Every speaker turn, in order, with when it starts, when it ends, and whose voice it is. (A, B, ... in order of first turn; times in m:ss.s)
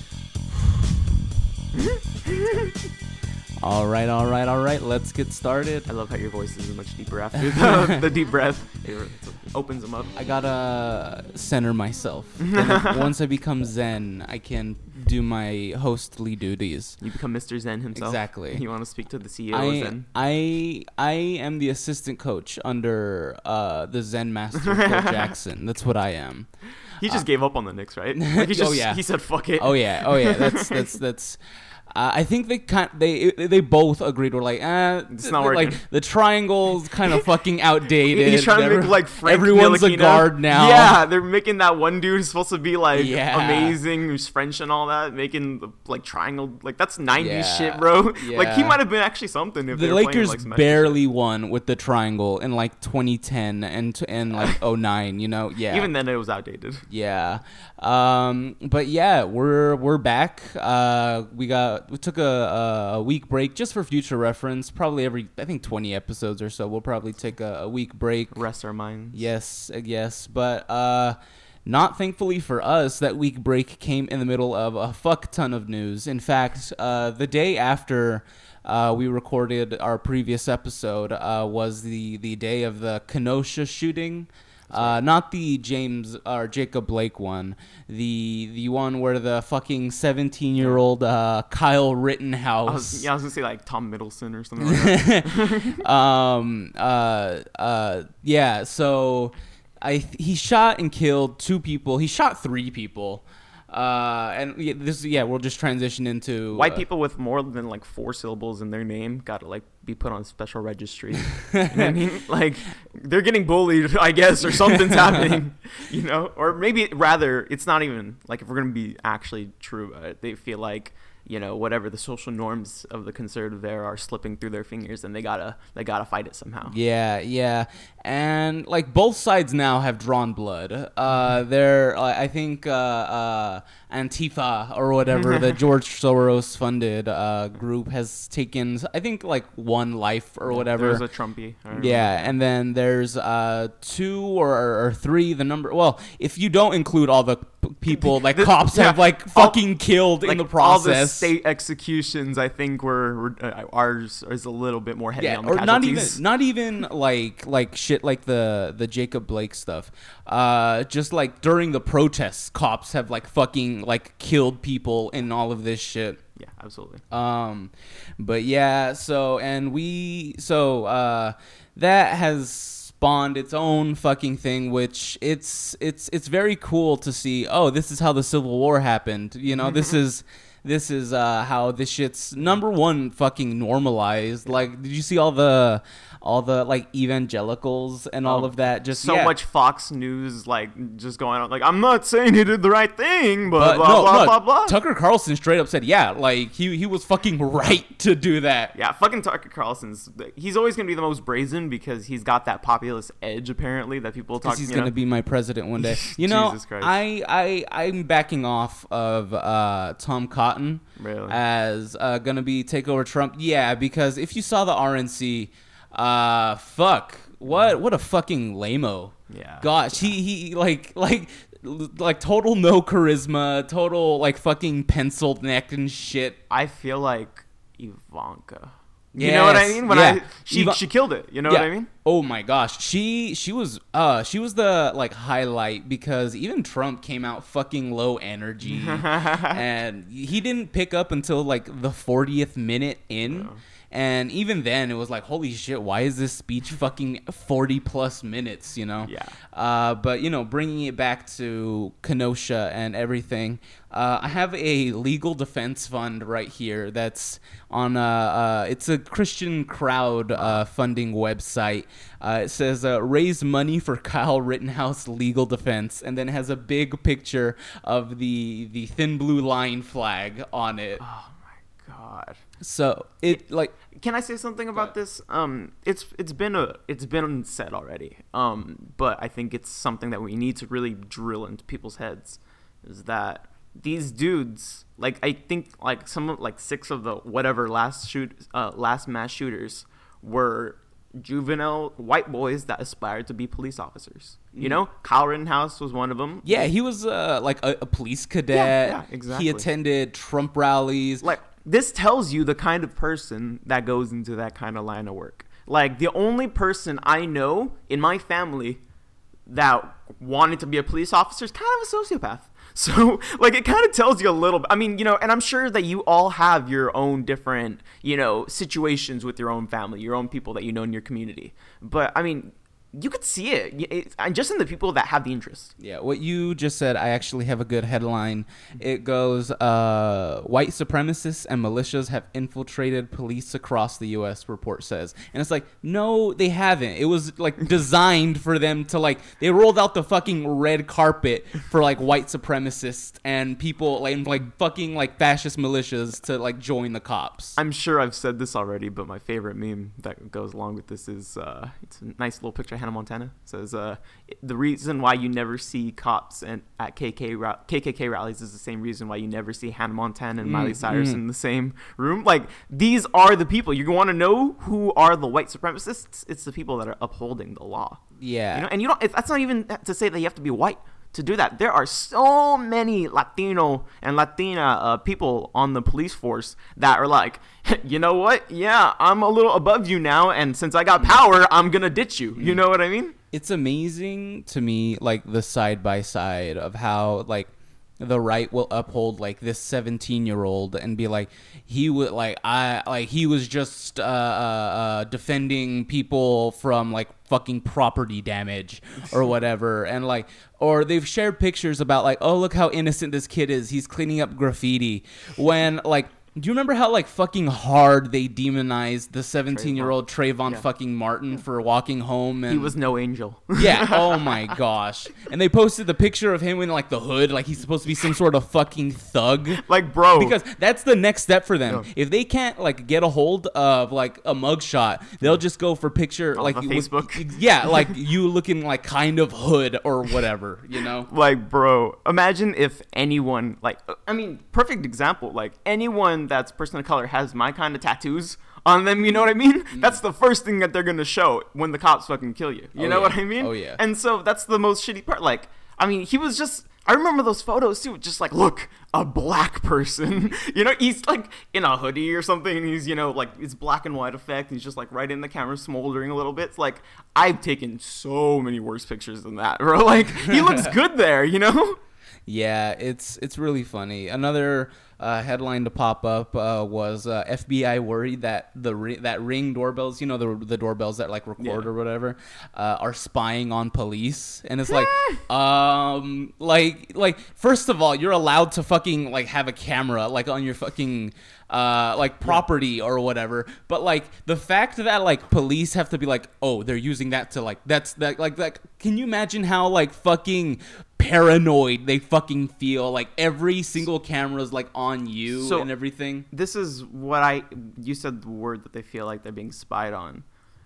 0:01.7-0:02.7 A
0:03.6-0:05.9 B
0:05.9-0:10.2 A
0:07.6-0:08.0 B
0:10.2-0:17.0 B
0:12.4-0:13.1 A
0:17.0-0:20.1 A
0:18.0-0:18.7 B
0:19.5-0:26.5 B
0:24.6-0:25.3 A
0:26.9-0:30.8 A
0:28.1-0:29.0 B
0:29.6-0:41.0 B
0:35.1-0:35.8 A
0:38.1-0:51.0 A
0:42.9-0:43.8 B
0:47.2-0:48.8 B
0:49.7-0:55.9 B
0:55.7-0:56.8 A
0:56.9-1:08.4 B
1:08.3-1:09.2 A
1:09.1-1:33.1 B
1:24.7-1:25.0 A
1:32.7-1:35.8 A
1:34.6-1:46.8 B
1:46.5-2:06.8 A
1:51.3-1:52.0 B
1:54.7-1:55.3 B
2:06.7-2:21.0 B
2:20.5-2:22.3 A
2:21.7-2:31.3 B
2:28.0-2:29.6 A
2:30.2-2:36.2 A
2:35.2-2:46.2 B
2:46.4-2:47.0 A
2:47.1-3:09.3 B
3:08.2-3:14.8 A
3:13.6-3:18.8 B
3:18.7-3:24.9 A
3:24.4-3:46.4 B
3:25.8-3:27.0 A
3:31.0-3:31.4 A
3:39.3-3:40.1 A
3:46.5-3:51.9 A
3:49.2-3:50.8 B
3:51.5-4:31.0 B
3:58.7-3:59.6 A
4:03.3-4:03.6 A
4:09.0-4:09.4 A
4:31.0-4:32.4 A
4:32.6-4:33.8 B
4:33.9-4:56.7 A
4:54.6-4:54.8 B
4:56.4-5:01.3 B
4:58.5-4:59.7 A
5:01.2-5:08.8 A
5:09.5-5:25.7 A
5:25.8-5:47.6 B
5:47.6-6:08.0 A
6:00.4-6:01.2 B
6:08.2-6:08.7 B
6:08.5-6:23.2 A
6:22.4-6:22.6 B
6:23.3-6:52.8 B
6:49.5-6:50.0 A
6:52.5-6:54.4 A
6:53.6-6:59.6 B
6:59.5-7:00.4 A
7:00.1-7:11.1 B
7:06.4-7:07.9 A
7:11.1-7:41.8 A
7:19.7-7:20.0 B
7:22.8-7:23.8 B
7:40.2-7:40.7 B
7:42.3-8:16.3 B
7:51.4-7:51.7 A
8:15.4-8:15.7 A
8:16.3-8:20.2 A